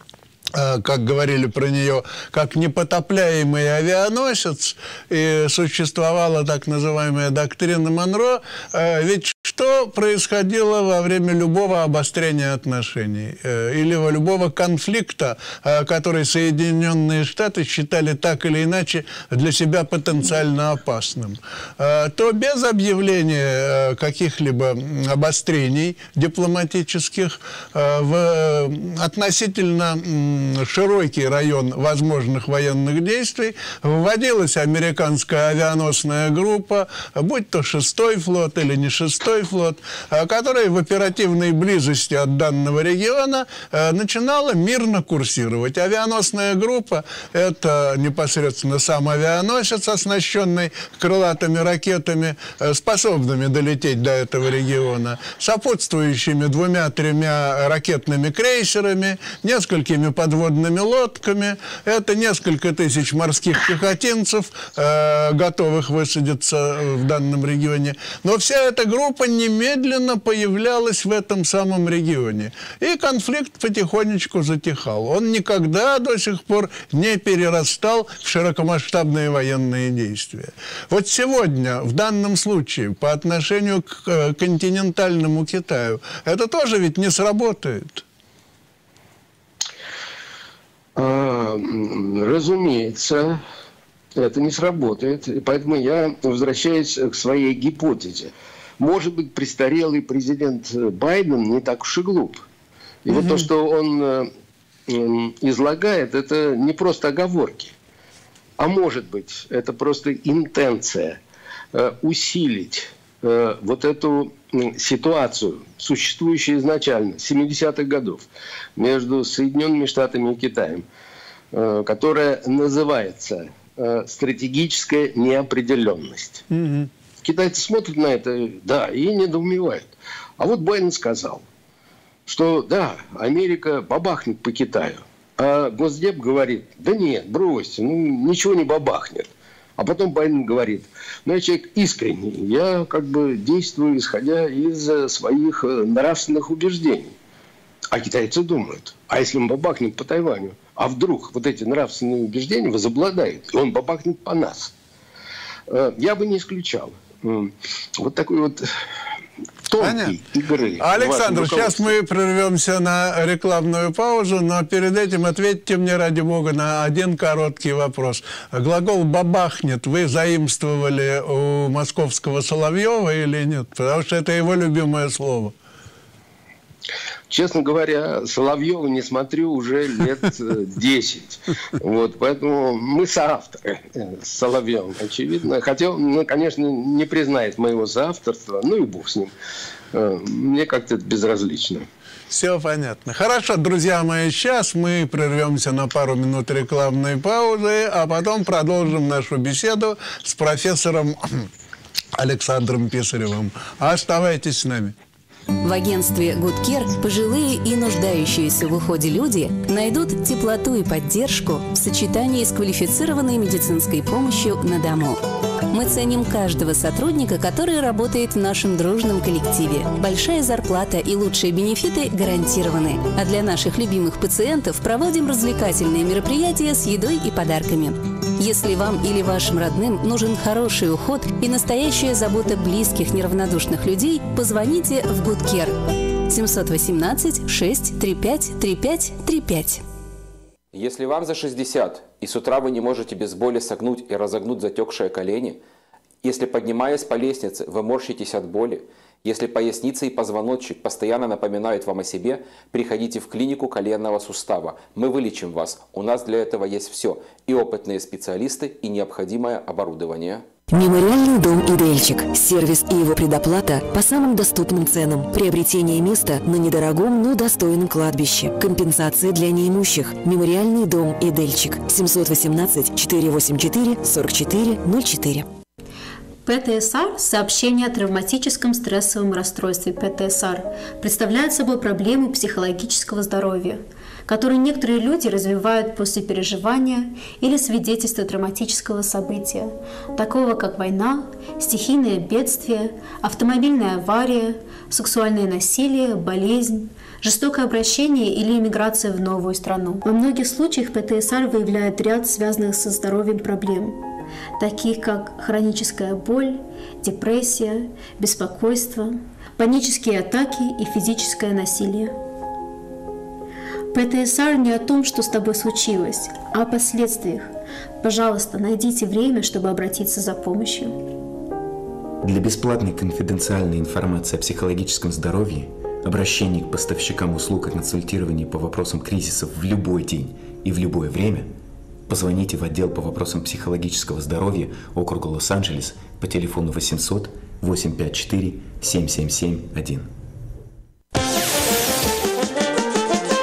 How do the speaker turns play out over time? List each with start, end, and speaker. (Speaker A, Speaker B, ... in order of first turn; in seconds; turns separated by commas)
Speaker A: 0.5-88.0, Speaker B: 91.0-93.4, Speaker B: 94.2-102.4, Speaker B: 103.0-104.3, Speaker A: 103.1-103.5, Speaker B: 104.9-107.7, Speaker B: 108.6-111.2, Speaker B: 111.7-120.8, Speaker B: 121.5-126.4, Speaker A: 126.5-126.9, Speaker B: 127.2-131.4, Speaker B: 132.3-147.1, Speaker B: 147.9-154.7, Speaker B: 155.7-158.7, Speaker B: 159.7-161.9, Speaker A: 159.8-160.2, Speaker A: 160.8-175.5, Speaker B: 177.3-189.3, Speaker B: 189.9-191.8, Speaker A: 192.3-201.5, Speaker A: 202.2-204.9, Speaker C: 205.6-215.2, Speaker C: 215.7-235.7, Speaker C: 236.3-239.8, Speaker D: 240.7-245.6, Speaker D: 246.2-260.5, Speaker E: 260.7-275.5, Speaker F: 276.4-304.0, Speaker F: 304.6-312.1, Speaker F: 313.9-321.0, Speaker G: 322.2-331.5, Speaker G: 332.1-340.1